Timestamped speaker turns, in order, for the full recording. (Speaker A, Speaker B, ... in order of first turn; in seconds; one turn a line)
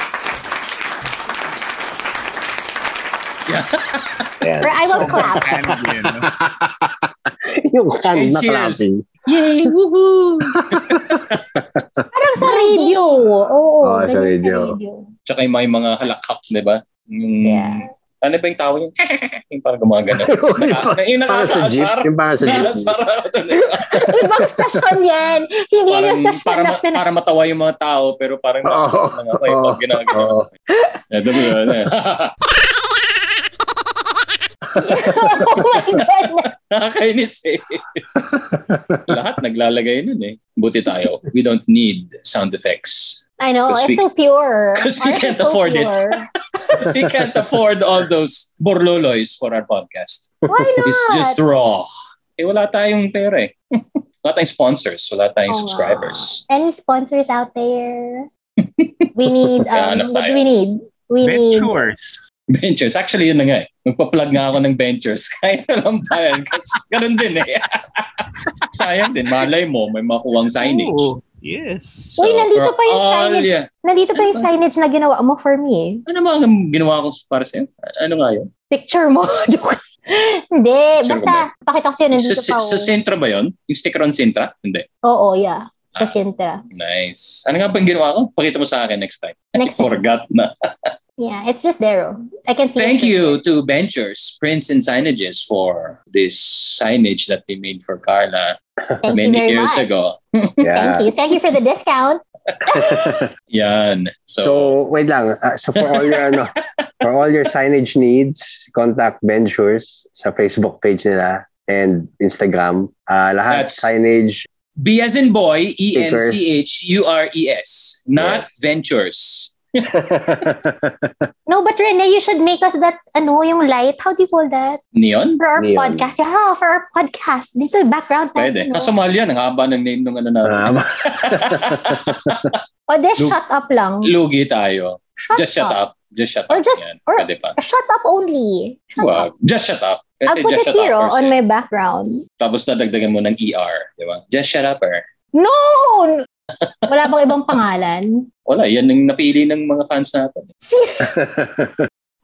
Speaker A: 3.5-4.3
Speaker B: 4.4-9.1
Speaker C: 4.6-5.5
Speaker D: 4.9-6.3
Speaker A: 8.1-11.5
Speaker B: 10.5-12.1
Speaker C: 12.1-15.0
Speaker A: 12.4-13.0
Speaker B: 13.8-14.8
Speaker A: 15.3-24.1
Speaker C: 17.4-17.9
Speaker B: 20.1-22.9
Speaker C: 23.8-27.0
Speaker A: 25.9-30.5
Speaker B: 28.6-30.5
Speaker C: 30.7-31.0
Speaker A: 31.1-32.4
Speaker C: 34.8-36.5
Speaker A: 35.5-36.0
Speaker A: 36.5-38.0
Speaker B: 38.2-39.0
Speaker A: 39.1-44.0
Speaker C: 43.4-46.8
Speaker A: 44.8-53.5
Speaker C: 50.5-51.4
Speaker A: 54.2-56.4
Speaker C: 55.5-58.3
Speaker A: 58.6-58.9
Speaker C: 59.1-61.9
Speaker A: 59.6-60.4
Speaker D: 61.2-62.2
Speaker A: 62.5-71.1
Speaker D: 70.6-72.1
Speaker A: 72.1-73.7
Speaker C: 72.2-76.0
Speaker A: 74.2-74.5
Speaker A: 76.1-78.5
Speaker C: 78.7-82.9
Speaker A: 81.0-81.5
Speaker A: 82.1-84.9
Speaker C: 85.0-86.6
Speaker A: 86.7-90.9
Speaker C: 89.6-90.0
Speaker C: 91.2-93.4
Speaker A: 92.8-98.6
Speaker C: 99.0-99.8
Speaker A: 99.1-100.7
Speaker B: 100.6-101.1
Speaker C: 100.8-103.1
Speaker B: 102.7-103.3
Speaker A: 103.5-104.7
Speaker B: 104.4-114.5
Speaker A: 105.8-106.4
Speaker A: 113.5-113.9
Speaker A: 114.8-119.9
Speaker B: 115.9-116.5
Speaker B: 118.2-118.5
Speaker B: 119.9-121.3
Speaker C: 121.5-124.8
Speaker A: 125.0-125.4
Speaker C: 125.4-128.9
Speaker B: 125.6-126.1
Speaker A: 128.4-132.6
Speaker B: 130.4-132.5
Speaker C: 132.9-134.1
Speaker A: 134.0-137.6
Speaker C: 135.3-135.8
Speaker C: 136.5-139.3
Speaker A: 139.0-141.3
Speaker C: 140.3-142.2
Speaker A: 142.4-145.0
Speaker C: 145.4-146.2
Speaker C: 146.9-148.2
Speaker A: 148.5-150.5
Speaker C: 150.7-151.2
Speaker B: 151.0-151.8